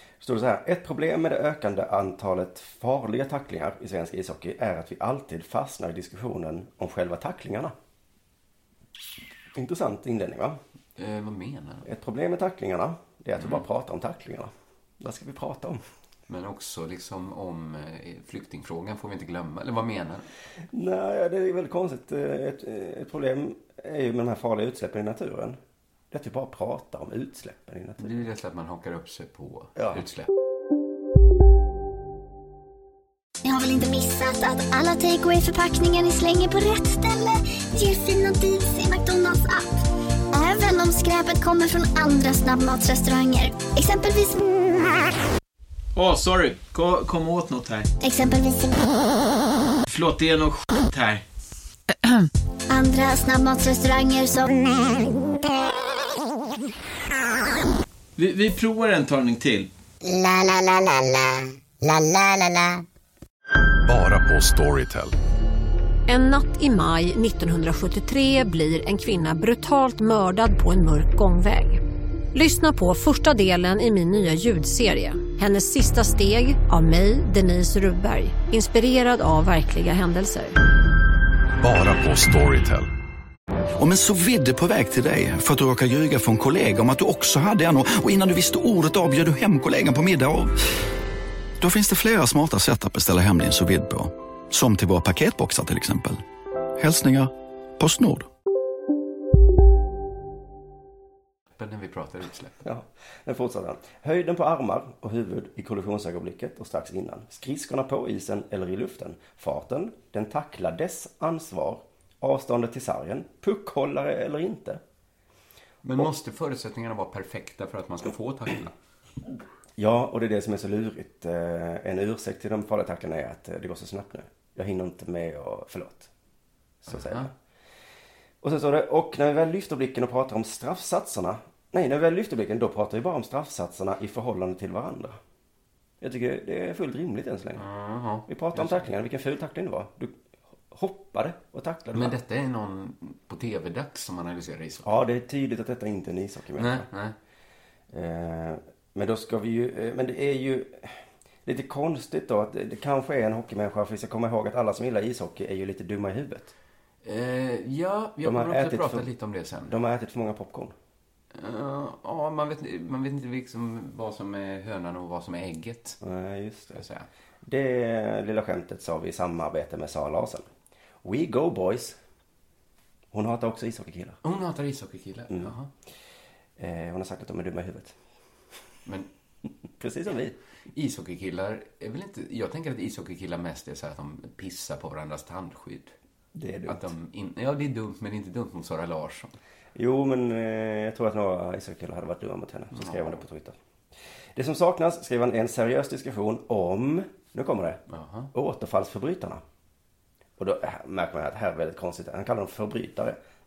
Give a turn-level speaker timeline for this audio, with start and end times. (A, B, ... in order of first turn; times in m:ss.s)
0:00.2-0:07.7 A
0:09.6-0:10.6 A
0:11.0-0:11.9 B
0:11.8-0:15.8 A
0:13.4-0:13.6 B
0:16.3-0:20.3 B
0:20.7-0:25.6 A
0:26.1-0:28.2 A
0:28.0-0:30.3 B
0:29.8-0:30.0 A
0:33.4-0:39.7 C
0:40.3-0:44.4 C
0:45.9-0:47.9 D
0:48.0-0:48.9 C
0:49.9-0:51.2 D
0:52.7-0:55.1 C
0:58.2-0:59.7 D
1:03.8-1:05.1 E
1:06.1-1:11.8 F
1:12.3-1:20.6 F
1:21.6-1:22.9 E
1:23.8-1:30.6 G
1:31.6-1:36.2 G
1:36.8-1:38.2 G
1:41.6-1:42.6 B
1:42.6-1:54.8 A
1:55.8-1:58.7 B
1:59.8-2:06.1 A
2:06.8-2:07.3 A
2:06.9-2:07.3 B
2:08.4-2:15.2 A
2:16.0-2:17.6 A
2:17.6-2:18.9 B
2:18.2-2:20.1 A
2:20.7-2:22.1 A
2:21.9-2:24.9 B
2:24.8-2:26.9 A
2:26.6-2:27.1 B
2:27.9-2:36.5 A
2:37.0-2:39.7 B
2:38.2-2:39.1 A
2:39.7-2:40.7 A
2:41.3-2:46.0 B
2:46.0-2:46.8 A
2:46.7-2:47.1 B
2:47.4-2:50.5 A
2:51.0-2:52.0 A
2:53.1-2:54.2 A
2:54.2-2:55.7 B
2:56.6-2:58.0 A
2:59.8-3:00.4 A
3:00.7-3:05.9 B
3:06.4-3:06.9 A
3:06.7-3:09.4 B
3:09.7-3:13.6 A
3:12.7-3:13.2 B
3:14.4-3:17.8 A
3:17.9-3:18.3 B
3:18.3-3:19.4 A
3:20.4-3:23.2 A